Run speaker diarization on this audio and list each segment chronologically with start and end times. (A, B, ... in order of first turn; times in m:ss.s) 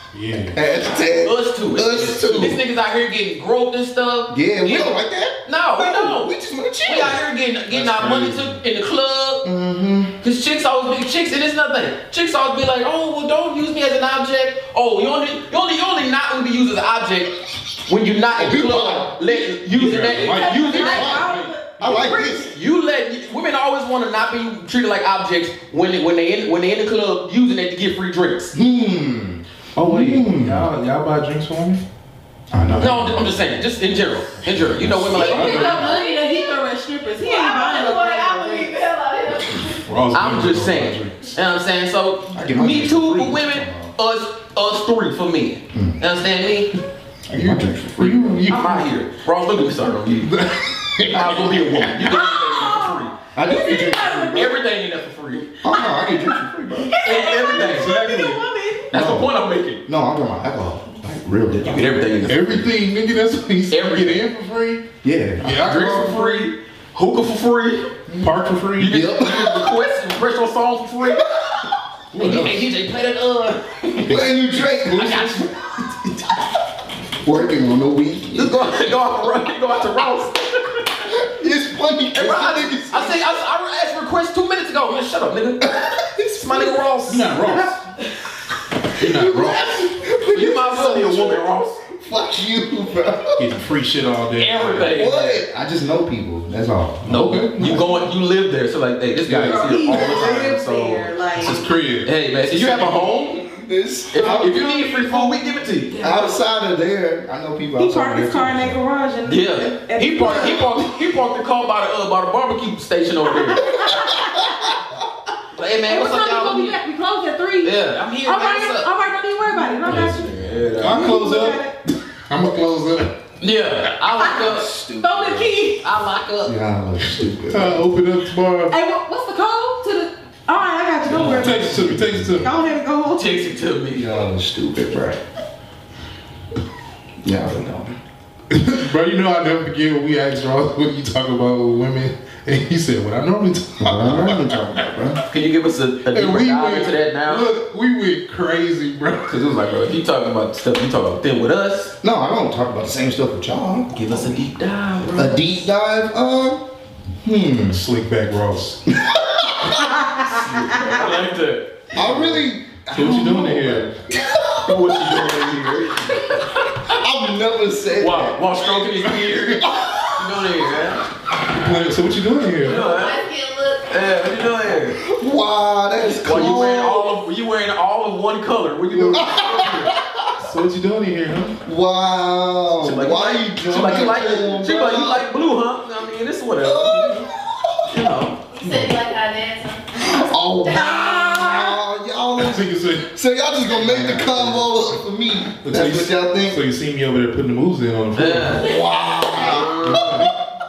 0:00.1-0:00.6 A
0:00.5-0:02.6 B
0:01.2-0:04.9 C
0:04.3-0:07.2 B
0:05.5-0:06.3 C
0:06.8-0:09.4 C
0:07.7-0:08.6 A
0:09.4-0:10.1 B
0:10.2-0:17.4 C
0:17.9-0:21.2 C
0:18.4-0:20.0 B
0:19.7-0:22.2 A
0:20.2-0:22.5 D
0:20.7-0:22.5 B
0:22.5-0:28.6 C
0:28.5-0:30.7 B
0:29.8-0:31.8 A
0:32.5-0:33.3 B
0:32.5-0:33.4 A
0:32.8-0:36.0 C
0:34.5-0:36.0 A
0:35.1-0:38.7 D
0:35.4-0:36.6 E
0:37.1-0:39.9 E
0:39.9-0:41.3 A
0:40.1-0:46.7 C
0:42.3-0:43.9 B
0:45.7-0:46.0 B
0:47.3-0:48.5 B
0:47.3-0:48.9 A
0:48.5-0:50.3 C
0:50.2-0:51.9 A
0:51.1-0:53.2 C
0:52.0-0:54.5 D
0:53.4-0:54.6 B
0:54.3-0:55.5 C
0:55.6-0:56.9 B
0:56.9-0:58.9 D
0:57.0-0:58.0 C
0:57.5-0:58.5 A
0:58.9-0:59.8 C
0:58.9-0:59.3 B
0:59.9-1:02.2 B
1:01.6-1:02.6 C
1:02.3-1:04.8 A
1:03.7-1:04.2 C
1:05.0-1:05.7 B
1:05.4-1:06.5 A
1:05.6-1:07.9 C
1:08.1-1:09.8 B
1:08.2-1:09.1 A
1:08.8-1:11.3 C
1:12.1-1:12.7 A
1:12.2-1:14.1 C
1:14.1-1:15.4 A
1:14.1-1:15.5 B
1:14.9-1:15.4 C
1:17.2-1:18.8 B
1:18.3-1:21.0 C
1:21.1-1:23.2 B
1:22.2-1:25.7 C
1:25.6-1:26.8 B
1:26.3-1:27.7 C
1:27.1-1:27.8 A
1:29.0-1:31.8 C
1:29.0-1:29.6 A
1:29.2-1:33.5 B
1:33.4-1:35.1 A
1:34.4-1:35.4 C
1:34.9-1:38.0 B
1:37.0-1:37.9 A
1:37.1-1:43.4 C
1:39.2-1:39.7 A
1:39.5-1:41.6 D
1:41.4-1:43.0 A
1:42.9-1:45.0 B
1:44.1-1:46.1 C
1:44.2-1:46.1 D
1:46.0-1:48.8 B
1:47.8-1:50.7 D
1:49.3-1:53.8 C
1:53.4-1:54.2 D
1:53.9-1:54.8 B
1:55.5-1:56.8 C
1:55.9-2:01.7 D
1:57.6-1:58.9 C
1:59.8-2:01.2 C
1:59.9-2:01.7 A
2:02.3-2:03.1 A
2:03.4-2:06.6 C
2:05.0-2:05.8 D
2:06.4-2:07.9 B
2:07.1-2:08.8 A
2:08.7-2:11.8 D
2:11.1-2:12.5 B
2:11.1-2:12.5 A
2:12.4-2:13.4 D
2:13.1-2:14.1 C
2:14.0-2:15.2 B
2:17.2-2:18.0 B
2:18.5-2:24.8 A
2:23.8-2:25.2 B
2:25.3-2:27.5 C
2:26.1-2:29.4 A
2:29.3-2:32.0 C
2:32.0-2:34.4 B
2:33.9-2:35.5 C
2:35.1-2:36.7 B
2:37.2-2:37.8 B
2:37.7-2:38.8 A
2:38.9-2:40.5 B
2:40.5-2:41.9 C
2:42.0-2:45.4 B
2:42.0-2:44.0 A
2:44.6-2:46.9 C
2:46.9-2:48.4 B
2:48.0-2:51.0 C
2:49.6-2:50.3 B
2:51.5-2:52.8 A
2:52.6-2:53.2 C
2:52.7-2:54.2 E
2:53.9-2:55.0 C
2:55.0-2:57.2 B
2:56.0-2:59.9 C
2:58.9-2:59.2 A
2:59.1-3:00.4 B
3:00.4-3:01.6 A
3:01.6-3:05.3 B
3:02.8-3:07.3 C
3:03.7-3:04.6 A
3:06.6-3:08.1 B
3:07.9-3:08.5 C
3:08.5-3:11.7 E
3:10.0-3:16.6 B
3:10.7-3:11.7 D
3:12.4-3:13.1 A
3:13.7-3:14.8 A
3:15.6-3:18.7 A
3:18.2-3:18.7 C
3:18.6-3:20.3 B
3:18.8-3:19.8 E
3:19.4-3:20.2 C
3:19.8-3:20.4 A